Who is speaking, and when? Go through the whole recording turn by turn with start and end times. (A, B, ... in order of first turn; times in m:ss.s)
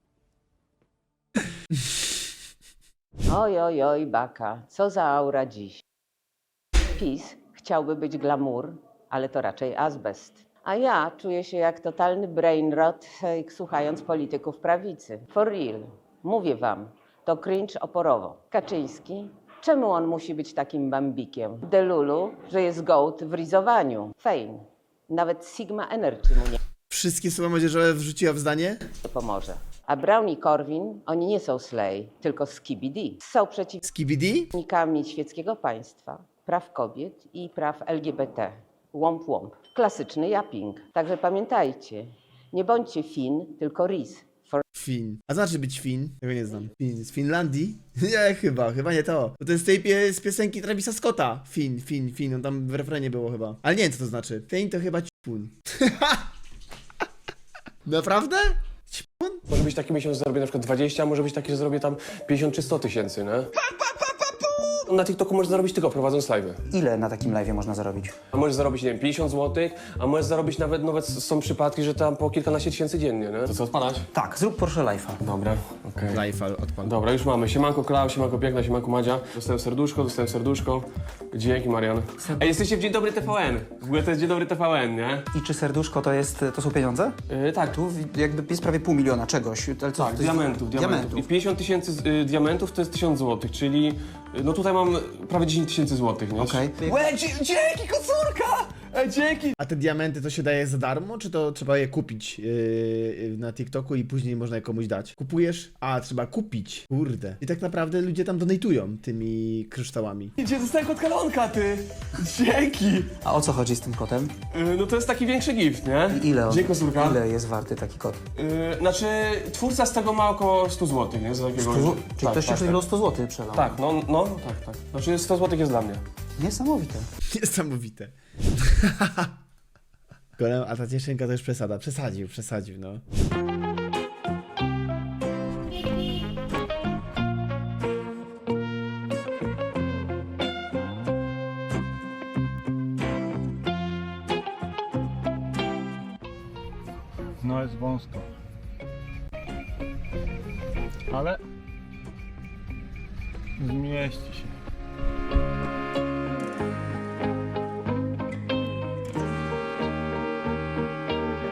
0:03.3-0:05.8 A
0:06.9-0:26.6 A
0:26.9-0:28.8 B
0:29.0-0:33.8 A
0:33.8-0:34.5 B
0:34.5-0:44.6 A
0:44.7-0:56.3 B
0:57.9-0:59.4 B
0:59.5-1:03.5 C
1:04.9-1:06.6 C
1:06.7-1:08.1 D
1:08.3-1:14.1 C
1:14.1-1:15.2 D
1:15.2-1:16.2 C
1:16.1-1:16.9 B
1:16.8-1:25.2 C
1:22.2-1:22.5 D
1:25.3-1:27.2 D
1:27.3-1:27.8 C
1:27.7-1:31.3 D
1:30.0-1:39.6 C
1:36.4-1:37.0 D
1:39.6-1:50.3 B
1:50.4-1:53.2 C
1:53.2-1:54.3 D
1:54.5-1:57.2 C
1:56.1-1:58.2 D
1:58.4-2:02.8 C
2:01.6-2:03.8 D
2:03.5-2:06.0 C
2:06.4-2:07.1 D
2:07.3-2:09.3 B
2:10.4-2:13.0 B
2:27.4-2:28.3 E
2:31.1-2:31.4 E
2:33.6-2:34.5 E